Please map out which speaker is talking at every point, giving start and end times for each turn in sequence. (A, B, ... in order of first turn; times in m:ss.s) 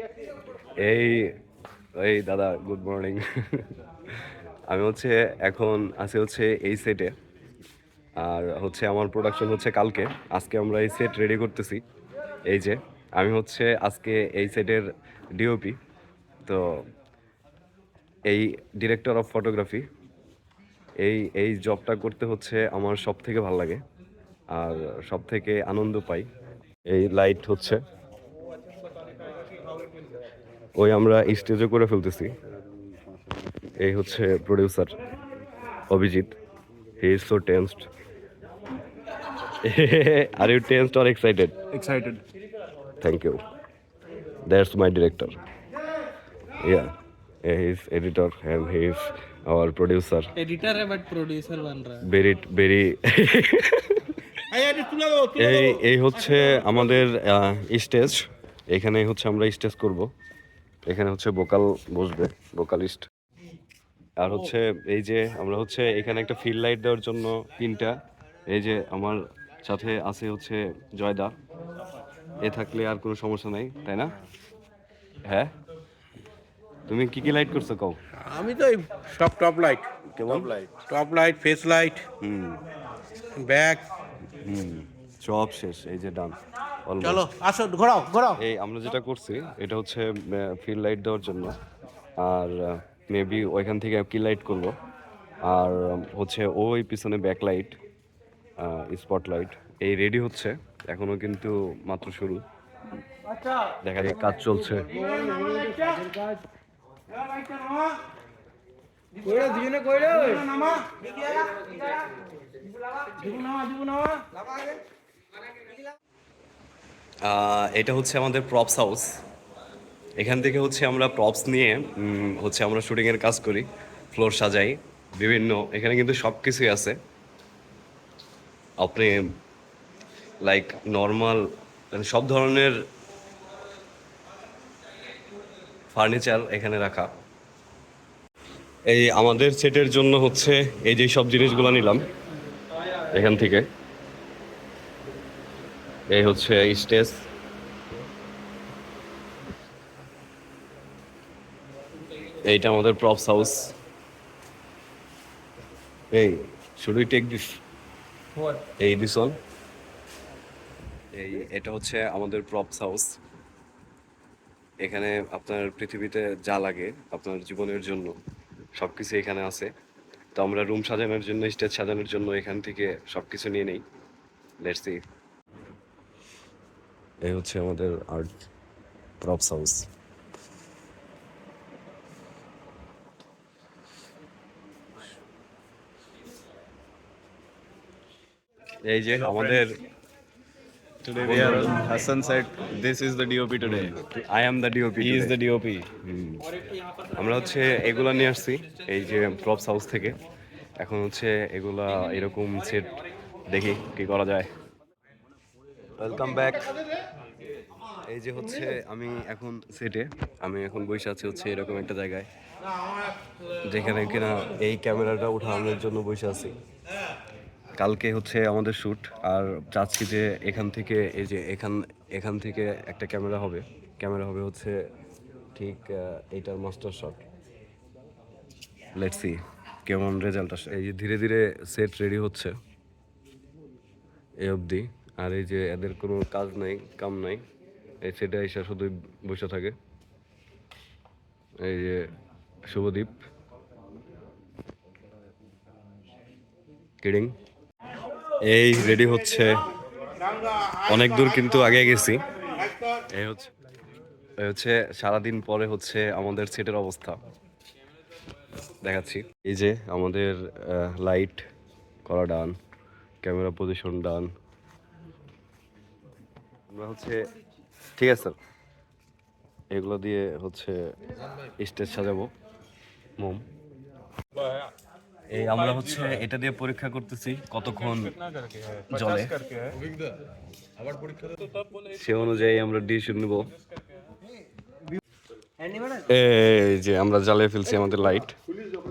0:00.8-0:01.3 A
0:02.0-0:04.2 A
0:04.7-0:07.1 A
0:08.2-0:11.8 A
0:12.5-0:14.9 A
0:15.4-0:15.8 A
0:16.4-0:16.9 A
0:18.3-0:19.9 A
0:21.0-0:23.8 A
0:24.5-0:26.3 A
0:26.9-0:27.8 A
0:30.8-0:32.3 A
0:33.8-0:34.9 A
0:35.9-0:36.4 A
0:37.0-0:37.9 A
0:39.4-0:41.6 A
0:41.7-0:42.2 B
0:43.0-0:43.4 A
0:44.5-0:45.4 A
0:46.6-0:46.9 A
0:47.4-0:50.3 A
0:50.4-0:52.0 C
0:52.0-0:54.4 A
0:54.5-0:55.7 D
0:55.3-1:00.1 A
1:00.9-1:03.0 A
1:04.2-1:07.9 A
1:08.5-1:11.3 A
1:12.4-1:14.1 A
1:15.3-1:15.5 A
1:16.9-1:18.0 A
1:18.2-1:19.9 D
1:20.1-1:20.6 A
1:20.3-1:20.8 B
1:20.8-1:22.1 D
1:22.2-1:22.6 A
1:23.4-1:23.9 D
1:24.4-1:27.3 A
1:27.0-1:28.4 D
1:28.4-1:31.6 A
1:32.2-1:34.8 A
1:35.4-1:37.8 A
1:38.6-1:42.4 A
1:43.8-1:45.0 A
1:45.0-1:46.4 C
1:45.1-1:45.9 D
1:49.2-1:51.1 C
1:51.6-1:52.0 C
1:53.2-1:54.2 C
1:57.2-1:59.2 A
2:00.2-2:07.0 A
2:08.8-2:09.3 A
2:10.4-2:12.8 A
2:15.9-2:17.1 A
2:18.9-2:22.1 A
2:23.1-2:23.7 A
2:26.1-2:27.2 A
2:32.4-2:33.7 A
2:36.1-2:37.6 A
2:38.6-2:39.4 A
2:41.1-2:43.1 A
2:44.8-2:48.1 A
2:48.8-2:49.7 A
2:50.4-2:53.8 A
2:54.6-2:55.0 A
2:57.2-2:58.3 A
2:59.2-2:59.8 A
3:08.9-3:09.8 A
3:09.2-3:09.7 B
3:11.1-3:14.0 B
3:11.2-3:11.8 A
3:13.6-3:15.4 A
3:15.0-3:15.9 B
3:16.0-3:16.4 A
3:17.1-3:20.2 A
3:20.8-3:23.0 A
3:23.5-3:24.5 A
3:26.0-3:26.7 A
3:28.1-3:32.3 A
3:33.6-3:36.6 A
3:37.8-3:44.9 A
3:45.6-3:47.2 A
3:49.0-3:52.5 A
3:54.4-3:57.4 A
3:58.0-3:59.8 A
4:01.6-4:02.1 A
4:02.7-4:03.2 A
4:07.0-4:07.3 A
4:08.4-4:09.6 A
4:10.8-4:12.2 A
4:13.1-4:13.5 A
4:14.4-4:17.2 A
4:18.8-4:21.4 A
4:22.0-4:22.6 A
4:23.2-4:24.3 A
4:26.7-4:27.2 A
4:28.0-4:28.4 A
4:29.7-4:30.8 A
4:31.6-4:32.3 A
4:33.2-4:33.4 A
4:35.3-4:38.2 A
4:38.8-4:39.7 A
4:41.8-4:43.5 A
4:45.9-4:48.4 A